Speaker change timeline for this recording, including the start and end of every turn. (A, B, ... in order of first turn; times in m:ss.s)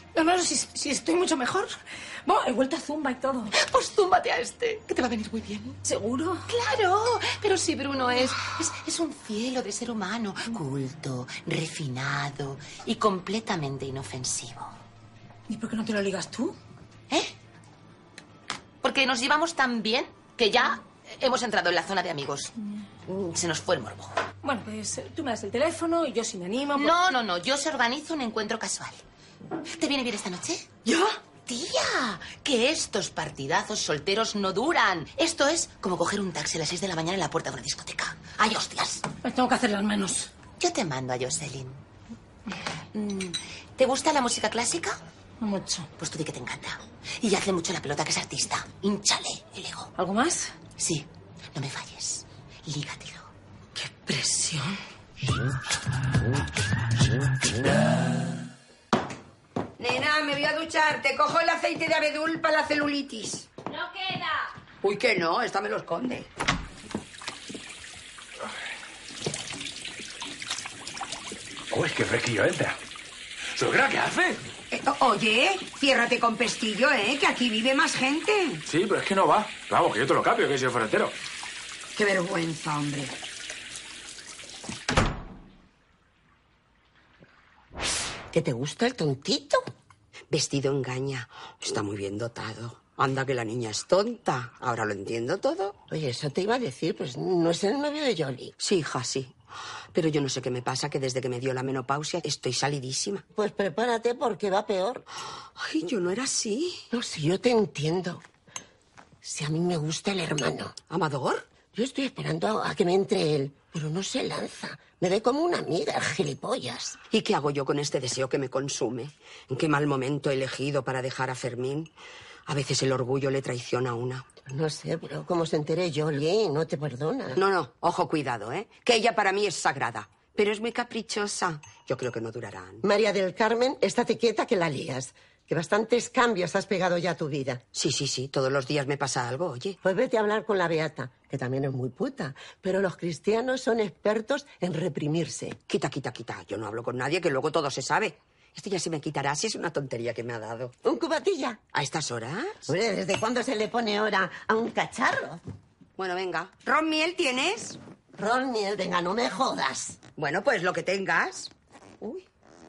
0:00.1-0:03.5 A
0:03.9-0:05.0 B
0:05.8-0:06.4 A
0:06.5-0:14.7 B
0:15.5-0:16.6 A
0:18.8-0:22.5 B
0:23.1-0:24.1 B
0:24.4-0:27.0 A
0:26.8-0:29.0 B
0:29.7-0:30.6 B
0:30.8-0:31.1 A
0:31.4-0:39.0 B
0:39.2-0:40.3 A
0:40.6-0:41.8 B
0:42.9-0:45.0 B
0:45.4-0:45.9 A
0:46.0-0:49.9 B
0:50.0-0:50.5 A
0:50.8-0:53.3 B
0:53.8-0:54.8 A
0:59.8-1:03.5 C
1:04.8-1:06.3 C
1:11.7-1:12.8 D
1:13.5-1:14.4 D
1:14.7-1:18.6 C
1:18.6-1:21.1 D
1:21.9-1:23.1 C
1:28.3-1:29.6 E
1:30.3-1:35.8 C
1:35.9-1:38.5 E
1:38.6-1:39.3 C
1:39.9-1:43.2 C
1:43.3-1:45.0 E
1:45.6-1:46.8 C
1:46.9-1:48.2 E
1:49.2-1:50.7 E
1:50.9-1:51.4 C
1:51.7-1:57.0 E
1:57.1-2:01.9 C
2:02.5-2:04.3 C
2:04.5-2:07.4 E
2:07.4-2:12.8 C
2:12.8-2:17.6 E
2:17.7-2:19.8 C
2:19.8-2:25.6 E
2:25.7-2:30.8 C
2:30.8-2:31.6 E
2:31.7-2:32.7 C
2:32.7-2:35.4 E
2:36.0-2:37.8 C
2:38.2-2:40.0 E
2:40.2-2:42.2 C